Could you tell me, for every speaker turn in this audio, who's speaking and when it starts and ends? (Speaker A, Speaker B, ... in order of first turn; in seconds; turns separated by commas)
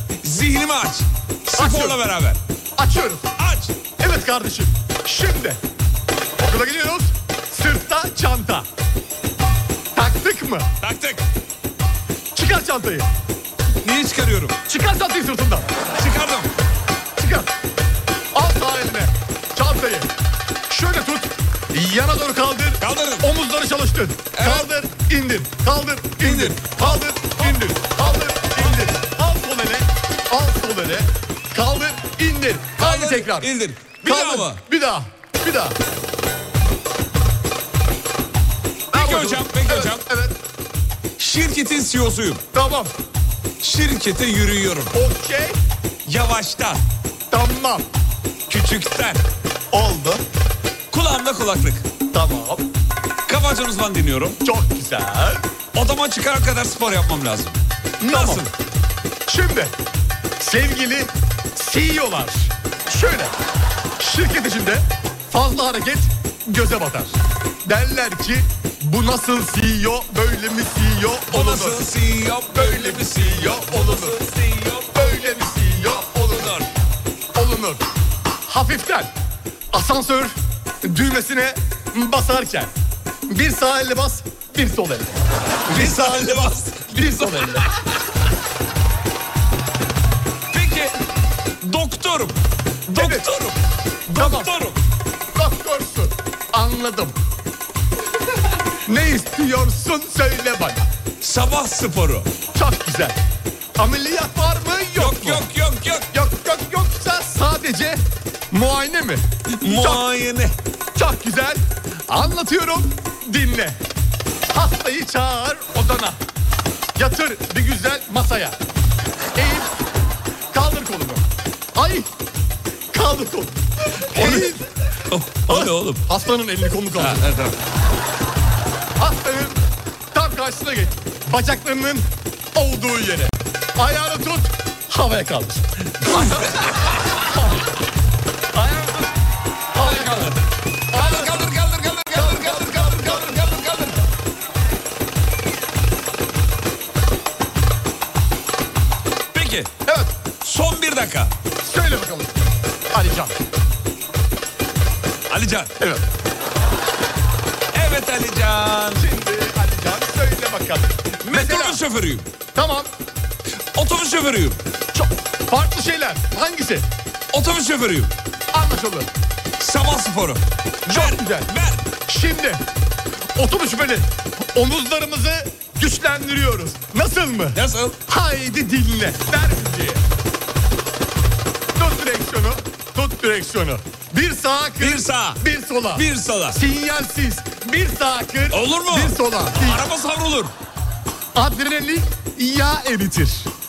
Speaker A: 0.2-2.4, Speaker B: 1.6-2.0, Speaker B: 2.8-3.3, Speaker A: 3.4-3.8, Speaker B: 4.0-5.6, Speaker B: 6.4-8.7, Speaker B: 9.9-10.7, Speaker A: 10.8-11.2, Speaker B: 12.3-13.1, Speaker A: 13.8-14.6, Speaker B: 14.7-15.7, Speaker A: 16.0-16.5, Speaker B: 17.2-17.5, Speaker B: 18.3-20.1, Speaker B: 20.7-33.5, Speaker A: 22.8-23.3, Speaker A: 24.4-24.7, Speaker A: 26.2-27.6, Speaker A: 32.8-34.6, Speaker B: 34.0-35.8, Speaker A: 38.9-40.0, Speaker B: 38.9-40.3, Speaker A: 41.2-42.4, Speaker B: 42.5-42.9, Speaker A: 43.6-44.9, Speaker B: 44.9-45.6, Speaker A: 46.1-46.8, Speaker B: 47.3-47.9, Speaker A: 48.5-49.2, Speaker B: 49.7-50.2, Speaker A: 50.9-51.9, Speaker B: 52.1-52.6, Speaker A: 53.3-54.4, Speaker B: 54.4-55.4, Speaker A: 55.7-58.5, Speaker B: 58.0-58.5, Speaker B: 59.3-59.7, Speaker B: 60.4-63.3, Speaker B: 64.0-71.9, Speaker A: 71.3-75.5, Speaker B: 72.5-74.2, Speaker B: 75.0-76.6, Speaker A: 76.1-76.7, Speaker B: 77.3-77.8, Speaker B: 78.5-79.1, Speaker B: 79.7-82.7, Speaker B: 83.3-87.7, Speaker A: 85.7-87.6, Speaker A: 90.5-91.0, Speaker A: 91.6-93.6, Speaker B: 93.0-93.3, Speaker B: 94.1-94.5, Speaker A: 94.1-94.8, Speaker B: 95.3-97.2, Speaker B: 98.8-100.9, Speaker A: 101.2-102.3, Speaker B: 102.5-103.2, Speaker B: 103.8-105.5, Speaker A: 105.0-106.1, Speaker B: 106.1-110.0, Speaker A: 109.6-110.5, Speaker B: 111.0-113.8, Speaker B: 114.5-116.2, Speaker B: 117.0-118.6, Speaker B: 119.4-119.7, Speaker B: 120.5-121.2, Speaker B: 121.8-122.1, Speaker B: 122.9-123.6, Speaker B: 124.1-124.6, Speaker A: 124.1-124.5, Speaker A: 125.1-126.0, Speaker B: 125.5-127.2, Speaker A: 127.0-127.6, Speaker B: 129.0-129.6, Speaker B: 130.1-136.7, Speaker A: 136.0-136.9, Speaker B: 137.3-137.6, Speaker B: 138.5-139.1, Speaker B: 139.7-140.4, Speaker A: 139.8-140.3, Speaker B: 140.9-141.5, Speaker A: 140.9-144.0, Speaker B: 142.1-143.4, Speaker A: 149.3-149.7, Speaker B: 149.9-150.1, Speaker A: 150.3-151.3, Speaker B: 151.6-152.4, Speaker B: 152.9-153.4, Speaker A: 155.3-155.7, Speaker A: 157.7-159.1, Speaker B: 159.0-161.8, Speaker A: 161.2-162.3, Speaker B: 162.6-162.9, Speaker A: 163.7-164.6, Speaker B: 164.9-166.9, Speaker A: 167.3-168.1, Speaker B: 168.5-169.1, Speaker A: 169.6-171.8, Speaker B: 170.9-171.5, Speaker B: 172.1-172.6, Speaker B: 173.4-180.0, Speaker A: 177.6-178.0, Speaker B: 181.8-189.8, Speaker A: 184.8-185.4, Speaker A: 185.9-186.6, Speaker A: 188.5-190.5, Speaker B: 191.3-193.5